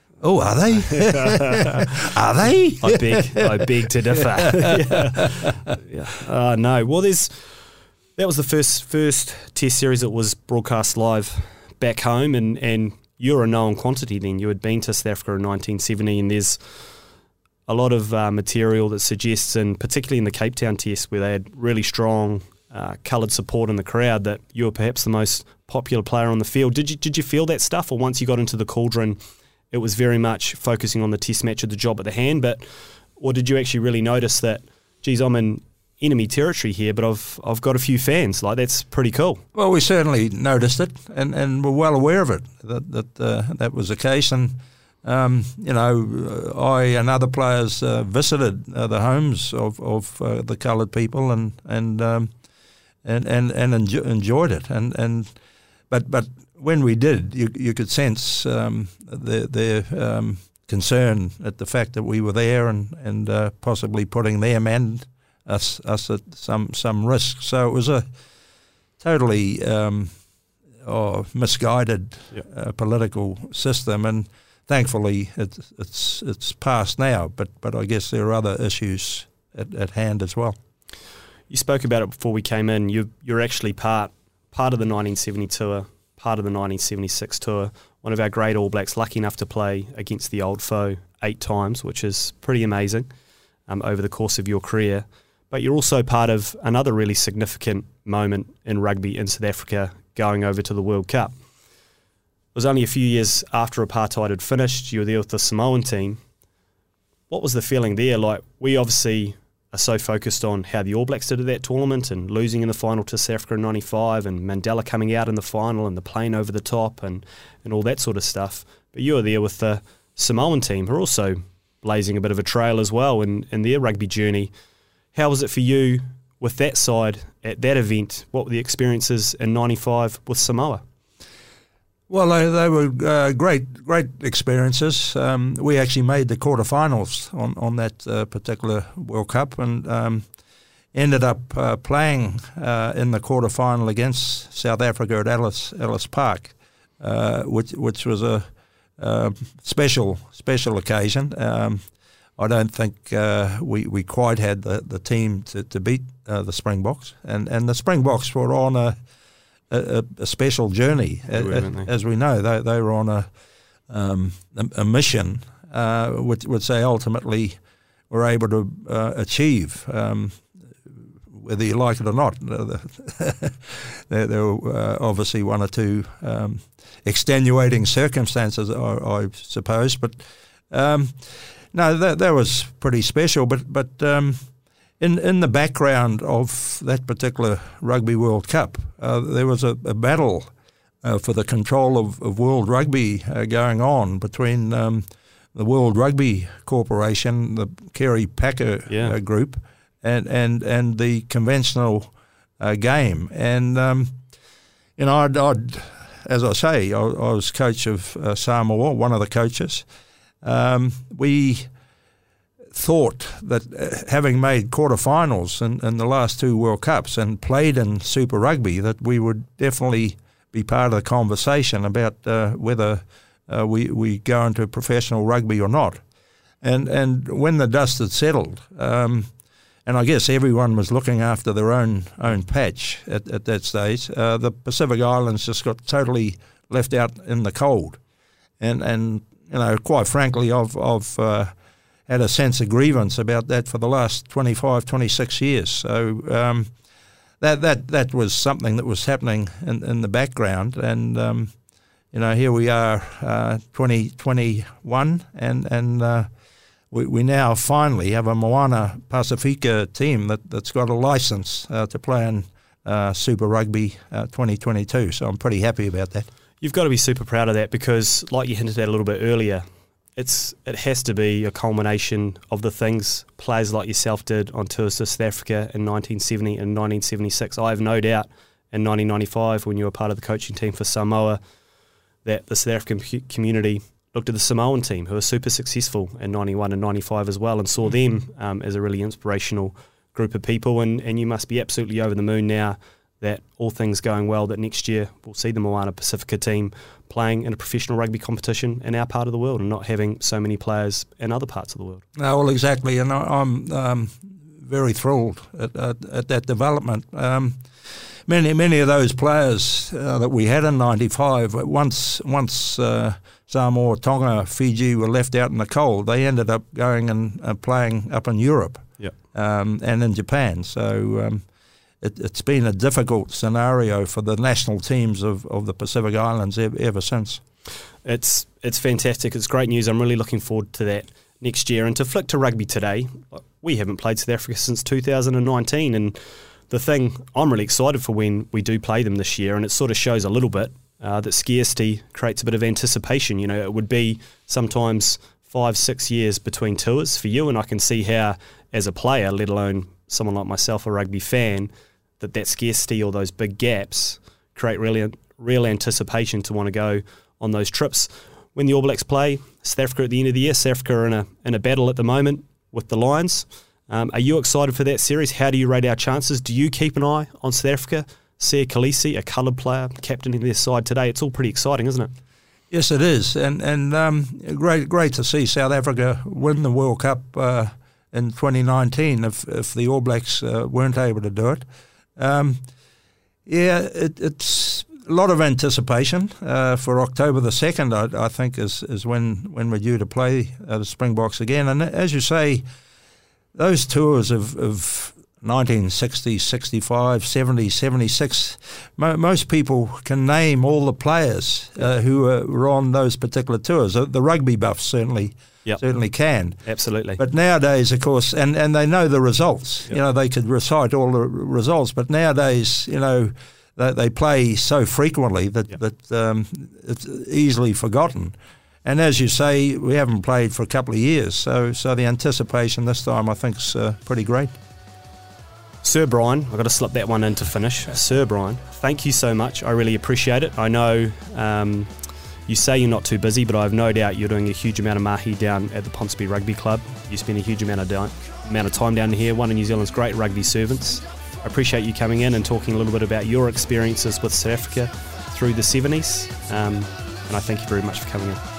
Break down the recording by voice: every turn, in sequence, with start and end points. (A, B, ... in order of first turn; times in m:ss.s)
0:00.2-0:05.0 A
0:02.8-0:07.6 B
0:08.2-0:16.6 B
0:17.7-0:29.2 B
0:29.7-0:39.4 B
0:39.6-0:52.3 A
0:53.0-0:55.3 A
0:55.9-1:08.1 A
1:09.0-1:10.1 A
1:10.8-1:20.6 A
1:21.5-1:33.1 B
1:33.7-1:41.3 B
1:42.5-1:46.2 B
1:47.3-2:04.5 B
2:05.1-2:10.8 B
2:12.1-2:20.3 A
2:20.9-2:28.5 A
2:29.0-2:31.8 A
2:32.4-2:39.0 A
2:39.7-2:43.3 A
2:41.4-2:41.9 B
2:43.9-2:47.6 A
2:48.1-3:00.2 A
3:00.7-3:04.4 A
3:05.0-3:10.5 A
3:11.0-3:24.2 A
3:18.9-3:19.2 B
3:25.0-3:29.8 A
3:30.4-3:31.7 A
3:32.7-3:46.0 A
3:46.6-3:49.3 A
3:49.9-3:58.0 A
3:58.6-4:01.5 A
4:02.1-4:06.7 A
4:07.4-4:11.5 A
4:12.1-4:16.3 A
4:16.9-4:26.3 A
4:26.6-4:29.6 B
4:30.2-4:41.4 B
4:42.2-5:02.0 B
5:02.2-5:07.6 A
5:08.3-5:21.4 A
5:22.0-5:27.4 A
5:28.0-5:36.2 B
5:36.7-6:12.1 B
6:12.7-6:21.6 A
6:22.2-6:22.6 A
6:23.5-6:32.6 A
6:33.6-6:46.6 A
6:46.6-6:47.2 B
6:47.2-7:04.5 A
7:05.8-7:11.9 B
7:12.5-7:28.4 B